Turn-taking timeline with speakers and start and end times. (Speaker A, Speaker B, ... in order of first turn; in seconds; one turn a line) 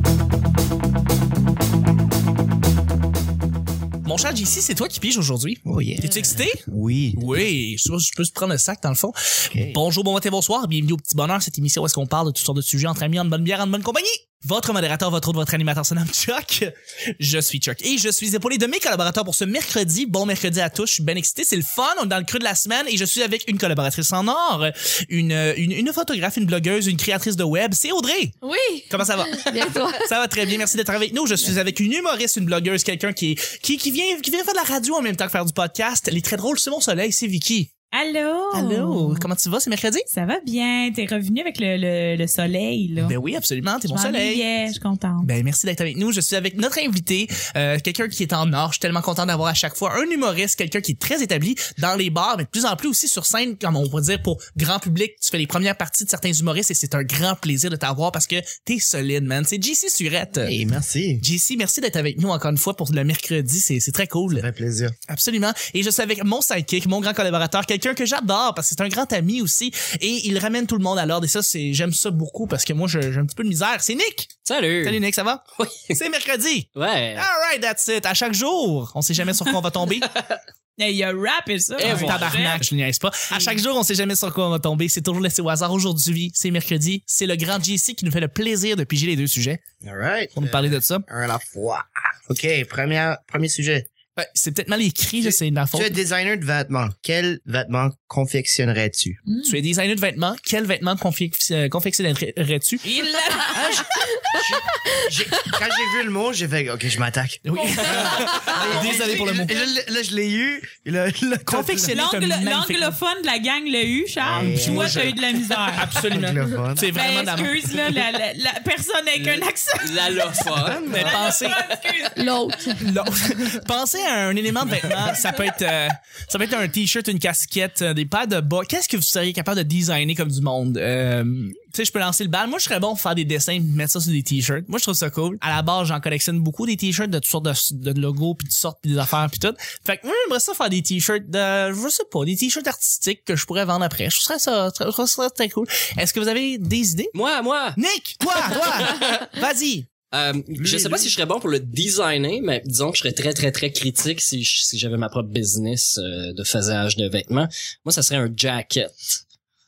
Speaker A: 4.0-28.4
Speaker B: 5.7-7.3
Speaker B: 9.5-9.8
Speaker C: 28.4-30.1
Speaker A: 28.9-37.7
Speaker D: 37.9-39.3
Speaker A: 38.5-40.1
Speaker D: 40.1-43.2
Speaker A: 43.0-44.5
Speaker D: 43.9-45.3
Speaker A: 45.2-60.6
Speaker B: 60.4-61.2
Speaker A: 61.2-64.5
Speaker B: 64.3-65.0
Speaker A: 65.1-74.3
Speaker E: 74.5-75.0
Speaker A: 74.8-75.4
Speaker E: 75.5-76.0
Speaker A: 75.9-80.1
Speaker E: 76.8-77.3
Speaker D: 80.8-82.6
Speaker E: 81.8-82.4
Speaker A: 81.8-89.6
Speaker D: 83.3-83.6
Speaker B: 89.8-93.9
Speaker A: 90.3-91.1
Speaker A: 94.2-96.0
Speaker B: 95.2-99.2
Speaker D: 99.3-99.6
Speaker A: 99.4-102.9
Speaker D: 102.8-104.0
Speaker B: 103.5-112.0
Speaker C: 104.2-104.5
Speaker A: 107.5-109.5
Speaker D: 107.6-109.0
Speaker A: 111.5-113.0
Speaker D: 111.9-116.0
Speaker B: 114.2-115.1
Speaker A: 114.3-117.8
Speaker B: 116.0-116.9
Speaker D: 116.9-122.8
Speaker E: 119.2-122.0
Speaker B: 120.6-121.2
Speaker A: 120.9-121.6
Speaker C: 122.2-122.8
Speaker A: 122.7-147.1
Speaker E: 147.1-147.8
Speaker A: 147.8-149.9
Speaker E: 148.5-149.3
Speaker E: 150.1-159.2
Speaker B: 150.6-151.1